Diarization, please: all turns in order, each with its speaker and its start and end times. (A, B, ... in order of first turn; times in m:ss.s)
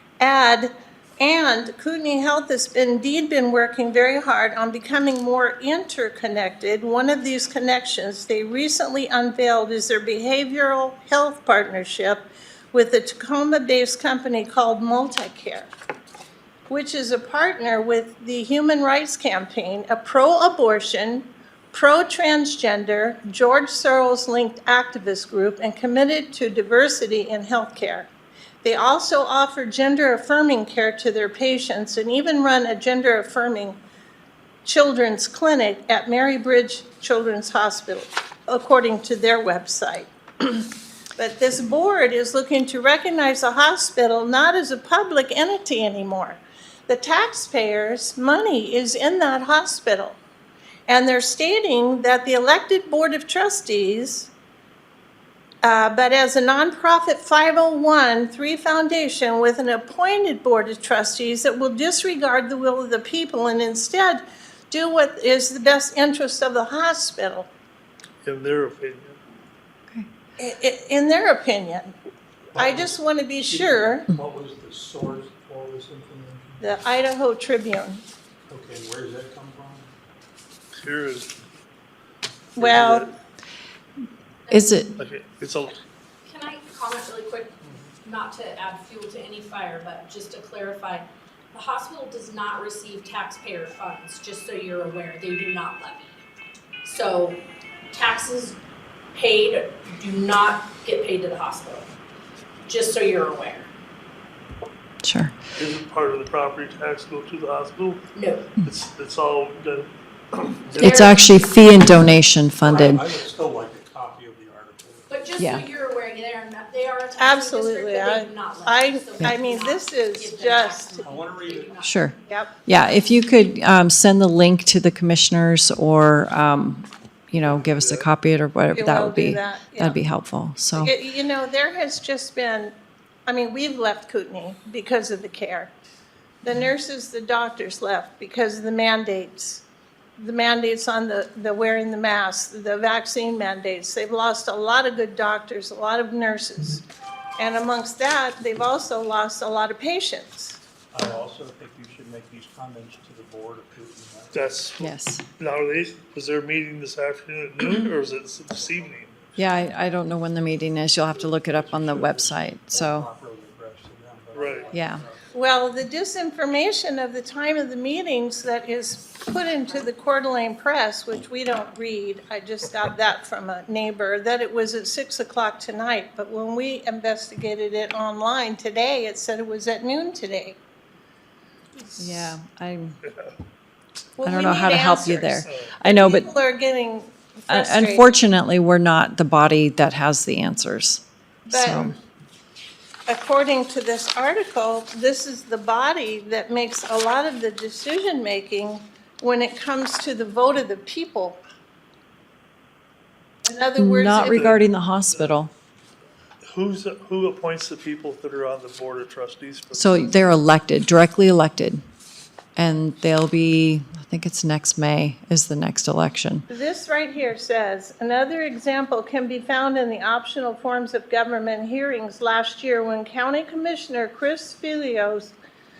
0:00.2-0:15.7 A
0:16.7-0:28.1 A
0:28.6-0:33.8 A
0:34.6-0:50.2 A
0:50.9-0:54.3 A
0:55.6-1:07.5 A
1:08.2-1:09.2 B
1:10.4-1:11.9 A
1:12.5-1:14.1 A
1:12.5-1:16.7 C
1:16.6-1:18.0 A
1:18.5-1:19.9 C
1:20.7-1:21.3 B
1:22.6-1:23.1 B
1:22.6-1:23.1 A
1:24.5-1:24.8 D
1:24.5-1:24.9 E
1:25.0-1:25.8 B
1:26.2-1:36.2 D
1:27.6-1:28.0 C
1:36.8-1:38.6 D
1:39.1-1:41.9 D
1:42.6-1:43.7 D
1:45.0-1:45.4 E
1:45.6-1:48.0 B
1:48.1-1:48.5 D
1:48.6-1:51.1 B
1:50.8-1:51.5 D
1:50.8-1:53.0 E
1:52.6-1:55.2 C
1:55.1-2:02.2 D
1:55.4-1:55.6 E
1:57.2-2:01.1 A
2:01.0-2:01.8 C
2:01.8-2:02.1 E
2:02.3-2:02.5 A
2:02.6-2:10.9 E
2:07.4-2:08.0 B
2:08.7-2:10.0 A
2:10.8-2:12.7 A
2:13.3-2:15.7 A
2:16.4-2:19.6 A
2:20.2-2:26.8 A
2:27.4-2:30.6 A
2:30.9-2:34.6 C
2:34.3-2:39.2 B
2:34.8-2:35.2 E
2:38.4-2:39.7 C
2:39.4-2:43.1 E
2:41.2-2:45.2 C
2:44.3-2:44.7 B
2:44.7-2:45.0 E
2:45.3-3:00.6 A
3:02.0-3:03.0 E
3:03.0-3:03.3 B
3:04.2-3:08.2 A
3:04.2-3:06.3 E
3:05.4-3:05.7 B
3:07.5-3:11.9 E
3:11.5-3:11.9 A
3:13.1-3:21.4 A
3:23.4-3:24.6 A
3:23.8-3:25.5 E
3:24.2-3:25.3 B
3:26.5-3:30.2 B
3:29.7-3:31.8 E
3:32.6-3:36.5 E
3:36.5-3:45.3 A